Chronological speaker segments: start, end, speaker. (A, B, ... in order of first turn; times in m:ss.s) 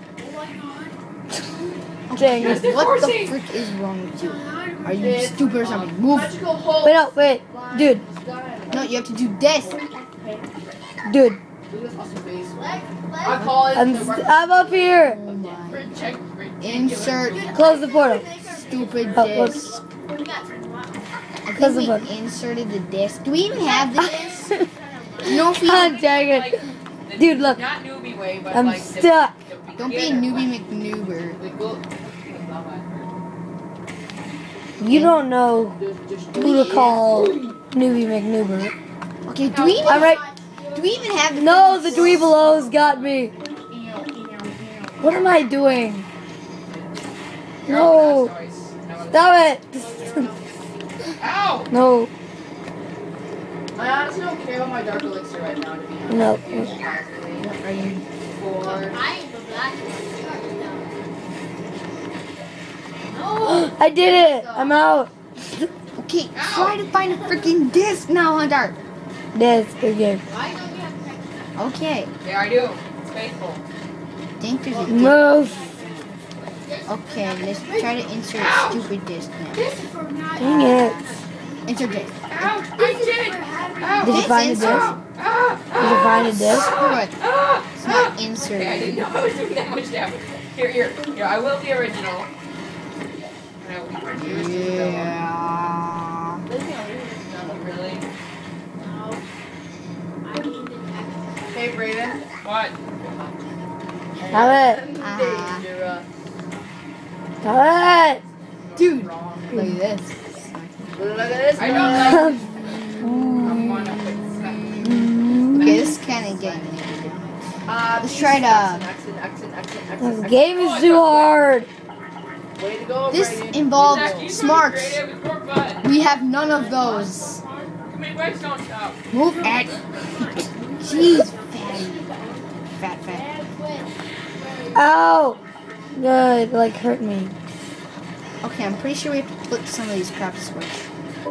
0:00.2-0:00.9 A
0:00.2-0:02.0 B
0:02.1-0:06.3 C
0:02.1-0:02.7 D
0:02.4-0:03.4 E
0:04.1-0:05.2 B
0:04.9-0:10.8 A
0:06.8-0:08.0 D
0:08.7-0:09.8 C
0:11.0-0:11.4 D
0:11.7-0:15.7 A
0:12.5-0:13.6 B
0:13.7-0:15.2 D
0:14.5-0:14.9 B
0:15.0-0:16.0 C
0:15.6-0:17.6 E
0:16.6-0:17.5 C
0:17.2-0:21.1 B
0:17.5-0:18.2 D
0:18.5-0:19.8 C
0:19.1-0:19.7 D
0:21.4-0:24.5 C
0:21.5-0:22.1 D
0:23.5-0:25.9 B
0:24.0-0:24.7 D
0:25.2-0:26.0 C
0:25.2-0:26.6 D
0:25.9-0:30.5 E
0:27.2-0:27.6 D
0:28.5-0:29.4 D
0:29.8-0:31.4 C
0:31.4-0:33.1 A
0:34.8-0:35.8 D
0:34.8-0:35.2 C
0:35.7-0:36.9 A
0:36.3-0:38.7 D
0:37.0-0:37.6 E
0:39.2-0:40.1 C
0:39.6-0:42.2 B
0:39.8-0:40.3 D
0:40.7-0:42.3 C
0:41.3-0:43.3 D
0:42.1-0:42.7 A
0:42.4-0:43.2 E
0:43.7-0:45.3 A
0:44.1-0:44.8 B
0:45.0-0:46.0 D
0:47.6-0:48.3 D
0:47.6-0:49.6 E
0:49.1-0:50.2 D
0:49.7-0:50.8 B
0:51.2-0:51.7 E
0:51.7-0:52.1 D
0:53.7-0:57.5 A
0:56.1-0:56.7 D
0:57.4-0:58.0 C
0:58.3-0:59.0 A
0:58.5-1:01.1 B
1:03.1-1:03.9 B
1:03.4-1:05.7 D
1:04.0-1:04.8 A
1:06.0-1:08.8 C
1:06.3-1:07.0 E
1:07.0-1:07.4 B
1:09.3-1:10.2 D
1:10.2-1:11.6 B
1:11.6-1:12.1 C
1:12.2-1:13.6 E
1:14.4-1:15.2 C
1:14.6-1:15.2 A
1:14.8-1:15.6 D
1:15.0-1:18.4 B
1:16.9-1:19.6 C
1:18.3-1:18.9 E
1:19.5-1:24.2 B
1:20.4-1:21.1 D
1:21.6-1:22.4 C
1:22.3-1:32.3 E
1:24.0-1:24.9 D
1:24.0-1:25.0 C
1:25.8-1:26.7 D
1:26.5-1:27.1 C
1:27.8-1:29.0 C
1:33.6-1:35.2 E
1:34.1-1:36.4 C
1:36.4-1:38.0 A
1:37.4-1:38.1 E
1:38.8-1:39.2 B
1:40.2-1:42.2 B
1:41.5-1:42.2 A
1:42.4-1:42.8 E
1:43.0-1:43.4 A
1:44.2-1:46.0 A
1:44.3-1:44.8 D
1:45.0-1:45.6 C
1:47.4-1:48.2 D
1:48.6-1:49.4 E
1:48.8-1:51.0 C
1:49.0-1:49.7 A
1:51.0-1:52.3 A
1:51.5-1:56.0 E
1:51.8-1:52.4 D
1:52.4-1:57.2 C
1:53.4-1:53.8 D
1:54.8-1:55.9 D
1:56.1-1:56.6 A
1:56.9-1:57.4 B
1:57.6-2:00.5 A
1:57.9-1:58.9 C
2:00.0-2:01.7 D
2:00.4-2:01.3 E
2:02.6-2:04.3 A
2:03.1-2:05.0 C
2:03.7-2:05.9 E
2:05.8-2:07.4 C
2:06.0-2:08.2 B
2:06.8-2:07.3 A
2:07.8-2:10.3 E
2:09.1-2:12.0 C
2:10.2-2:11.2 A
2:10.6-2:16.7 B
2:12.8-2:13.3 C
2:14.7-2:15.4 D
2:15.9-2:17.3 D
2:18.4-2:20.9 C